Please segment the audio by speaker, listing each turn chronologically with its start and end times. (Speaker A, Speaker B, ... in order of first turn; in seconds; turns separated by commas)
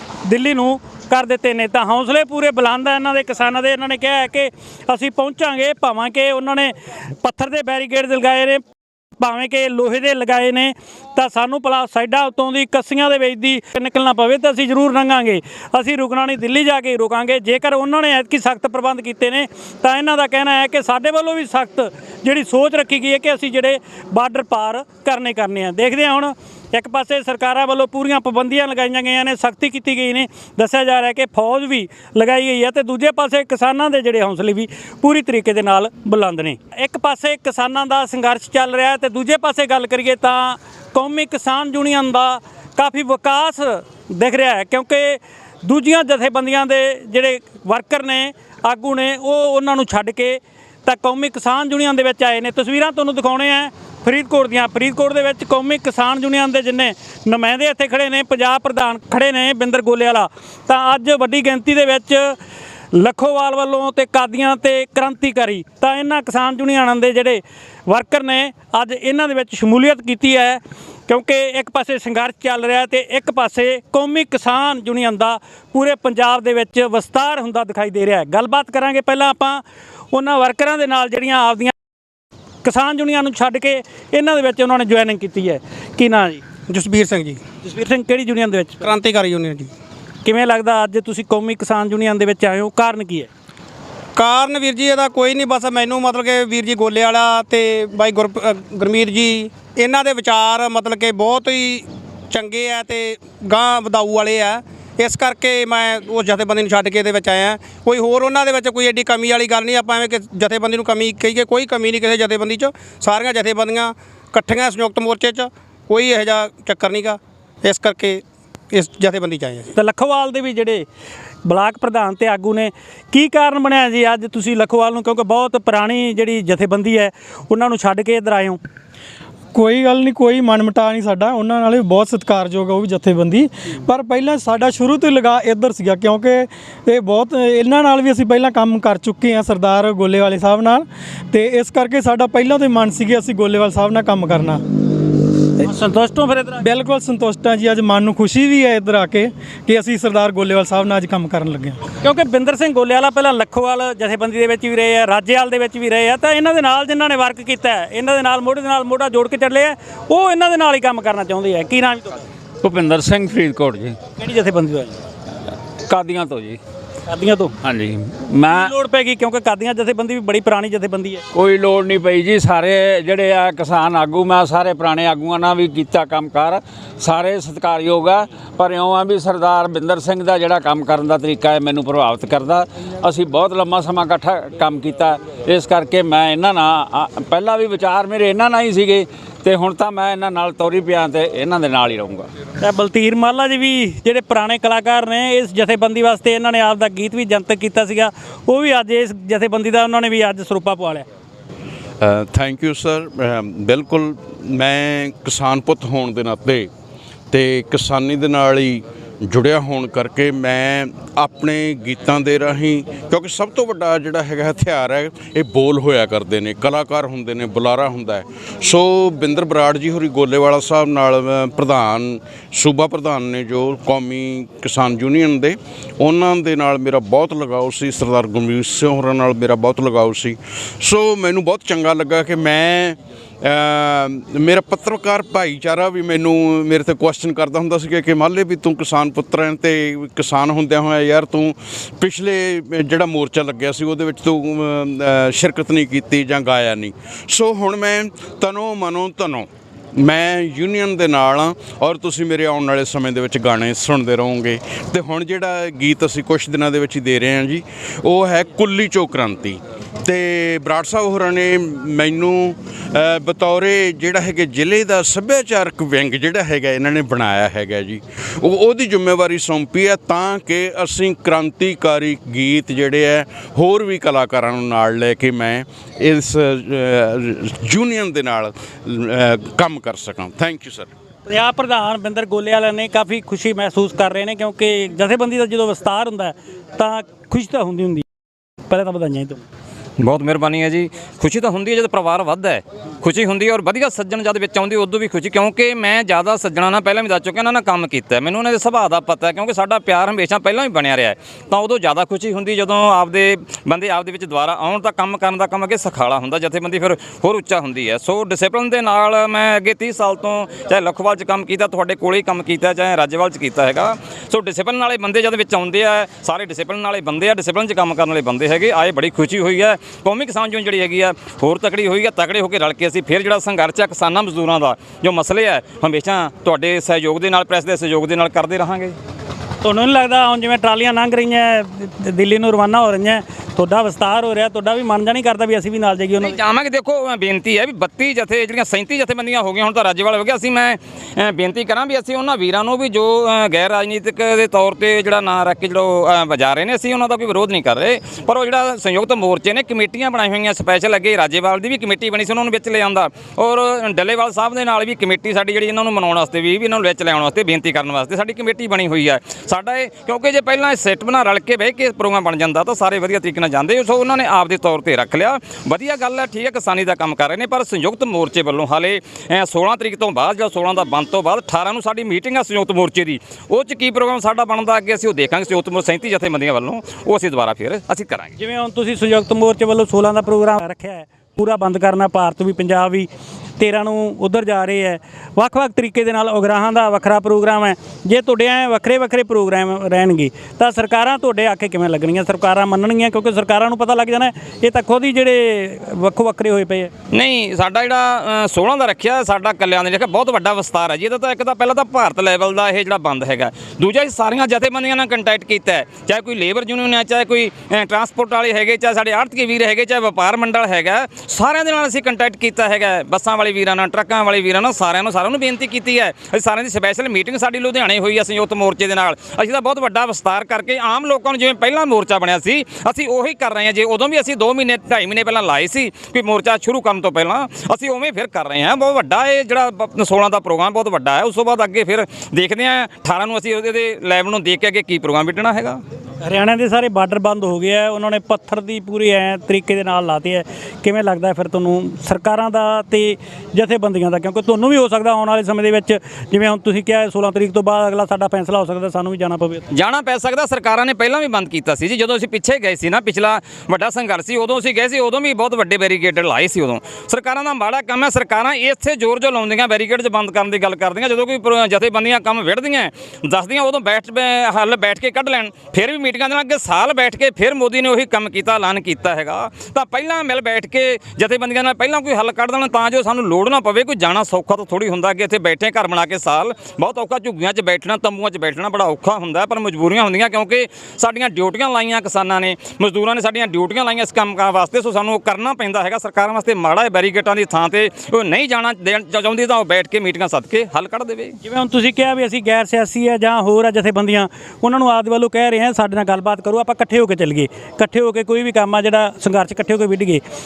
Speaker A: 0.3-8.6, Speaker A: 9.2-62.4, Speaker A: 62.9-81.8, Speaker A: 82.6-86.5, Speaker B: 86.7-87.4, Speaker A: 87.6-88.9, Speaker B: 88.8-89.7, Speaker A: 90.2-93.3, Speaker B: 94.2-119.7, Speaker A: 119.8-120.9, Speaker A: 121.5-128.6, Speaker C: 129.5-144.6, Speaker A: 145.6-146.6, Speaker C: 146.6-151.8, Speaker A: 152.0-162.2, Speaker D: 162.6-164.0, Speaker A: 164.2-165.0, Speaker D: 165.9-166.6, Speaker A: 167.1-167.5, Speaker D: 167.6-168.7, Speaker A: 168.5-171.2, Speaker D: 171.3-192.3, Speaker A: 192.6-201.1, Speaker E: 202.0-206.7, Speaker E: 207.3-280.9, Speaker A: 281.3-288.1, Speaker A: 288.7-289.4, Speaker F: 290.0-328.9, Speaker A: 329.6-336.4, Speaker F: 336.2-378.4, Speaker A: 378.4-383.1, Speaker A: 383.6-396.9, Speaker F: 397.1-435.8, Speaker A: 436.2-449.7, Speaker F: 449.7-491.4, Speaker A: 491.4-500.2